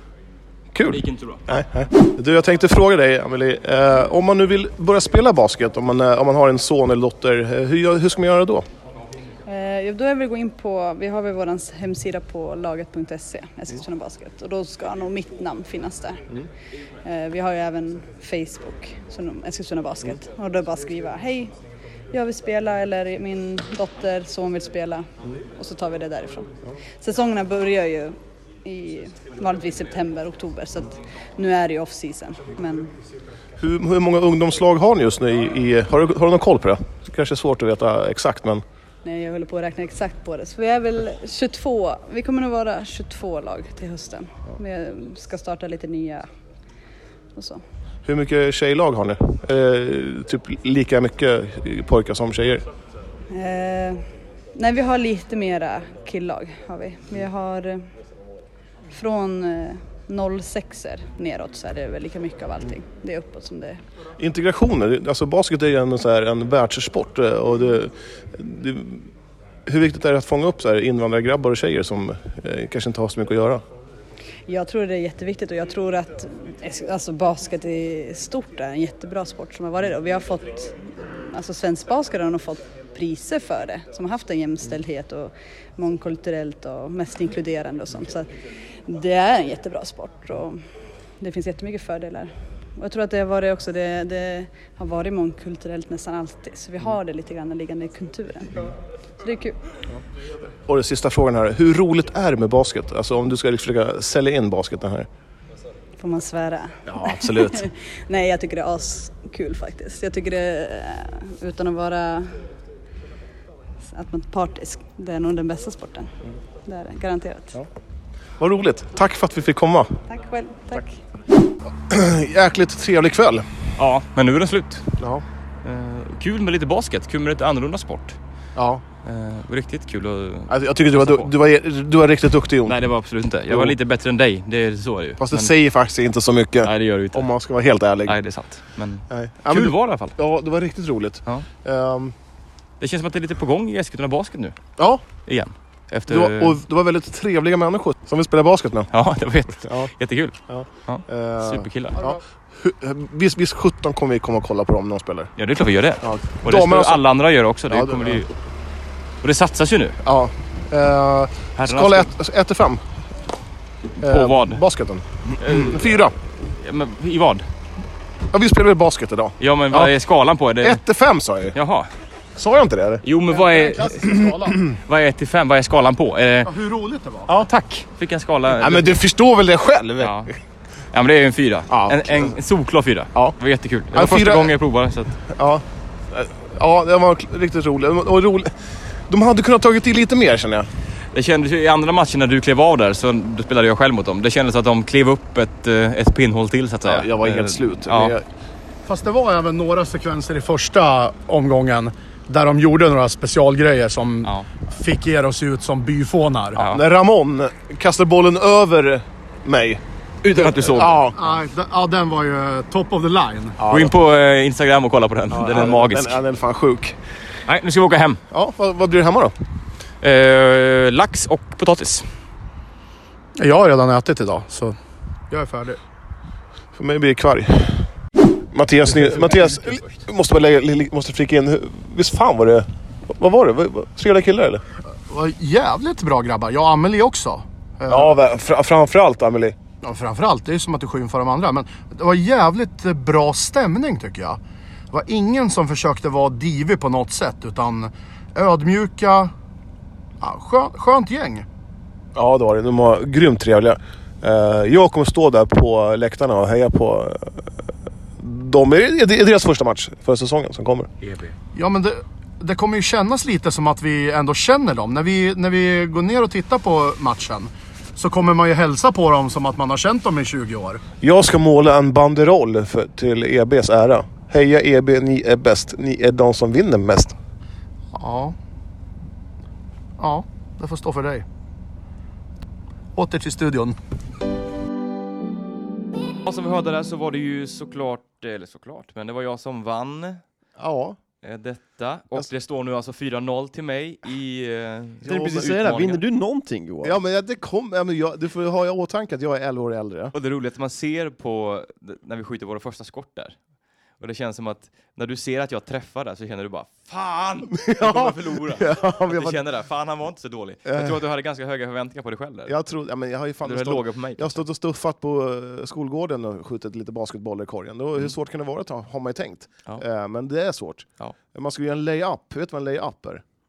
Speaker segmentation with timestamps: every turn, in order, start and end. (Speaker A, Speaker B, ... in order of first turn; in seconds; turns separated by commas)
Speaker A: 0.7-8.7, Speaker B: 0.9-1.4, Speaker C: 9.4-16.4, Speaker C: 17.0-21.5, Speaker C: 22.1-32.9, Speaker A: 33.5-38.6, Speaker C: 39.0-46.3, Speaker C: 47.3-47.6, Speaker A: 48.0-52.6, Speaker C: 53.3-57.9, Speaker C: 58.9-63.8, Speaker A: 64.2-69.1, Speaker A: 69.6-73.6, Speaker C: 74.5-88.3, Speaker C: 88.9-90.6, Speaker C: 91.2-99.6, Speaker A: 100.6-105.1, Speaker C: 106.0-112.5, Speaker A: 106.9-107.6, Speaker C: 113.9-116.1, Speaker C: 116.6-117.6, Speaker A: 118.4-120.0, Speaker C: 120.1-121.0, Speaker A: 121.9-123.6, Speaker B: 123.8-125.0, Speaker A: 125.0-125.2, Speaker B: 125.6-128.2, Speaker A: 128.6-128.8, Speaker B: 129.0-131.3, Speaker A: 130.5-132.8, Speaker B: 132.7-135.5, Speaker A: 133.5-133.8, Speaker A: 135.2-138.2, Speaker B: 136.6-137.3, Speaker B: 138.1-140.2, Speaker A: 139.1-142.1, Speaker B: 142.8-144.6, Speaker A: 144.8-145.0, Speaker B: 145.2-146.6, Speaker A: 146.1-148.9, Speaker B: 148.9-152.1, Speaker A: 149.6-149.9, Speaker A: 150.5-155.3, Speaker B: 155.4-158.3, Speaker A: 156.0-157.0, Speaker A: 157.7-158.2, Speaker B: 159.2-160.0, Speaker A: 160.0-162.8, Speaker B: 161.6-162.1, Speaker B: 164.0-164.6, Speaker A: 164.0-166.1, Speaker B: 165.4-167.5, Speaker A: 168.3-169.9, Speaker B: 169.4-170.8, Speaker A: 170.6-171.6, Speaker B: 171.5-171.9, Speaker A: 172.4-173.1, Speaker B: 173.0-176.6, Speaker D: 173.3-174.6, Speaker D: 176.4-177.3, Speaker B: 177.3-179.0, Speaker A: 178.6-180.4, Speaker B: 180.0-180.3, Speaker B: 180.9-185.2, Speaker A: 181.7-182.4, Speaker A: 183.9-184.6, Speaker A: 185.3-188.6, Speaker A: 189.1-190.7, Speaker B: 191.1-198.2, Speaker A: 196.8-198.3, Speaker D: 198.8-206.6, Speaker B: 206.6-206.8, Speaker A: 206.6-209.8, Speaker B: 210.2-211.1, Speaker A: 210.4-211.2, Speaker D: 211.1-213.6, Speaker A: 213.6-213.9, Speaker B: 213.7-216.2, Speaker A: 215.3-217.0, Speaker B: 217.4-218.2, Speaker A: 218.3-219.3, Speaker B: 220.0-222.1, Speaker D: 223.4-224.8, Speaker D: 225.3-225.8, Speaker A: 226.7-227.9, Speaker A: 228.5-234.6, Speaker D: 229.0-229.2, Speaker D: 235.0-238.1, Speaker A: 237.9-239.6, Speaker D: 239.8-244.4, Speaker D: 244.9-249.3, Speaker D: 250.2-251.4, Speaker A: 252.1-260.9, Speaker D: 261.5-270.8, Speaker A: 271.0-277.2, Speaker D: 277.9-278.4, Speaker D: 280.0-281.3, Speaker D: 282.9-283.8, Speaker B: 286.2-290.2, Speaker A: 290.6-291.0, Speaker B: 291.2-296.0, Speaker E: 295.1-297.0, Speaker A: 295.1-295.5, Speaker A: 296.8-300.1, Speaker B: 300.1-303.4, Speaker B: 304.0-312.6, Speaker A: 307.6-309.4, Speaker A: 310.6-311.0, Speaker A: 312.5-323.2, Speaker B: 313.4-314.4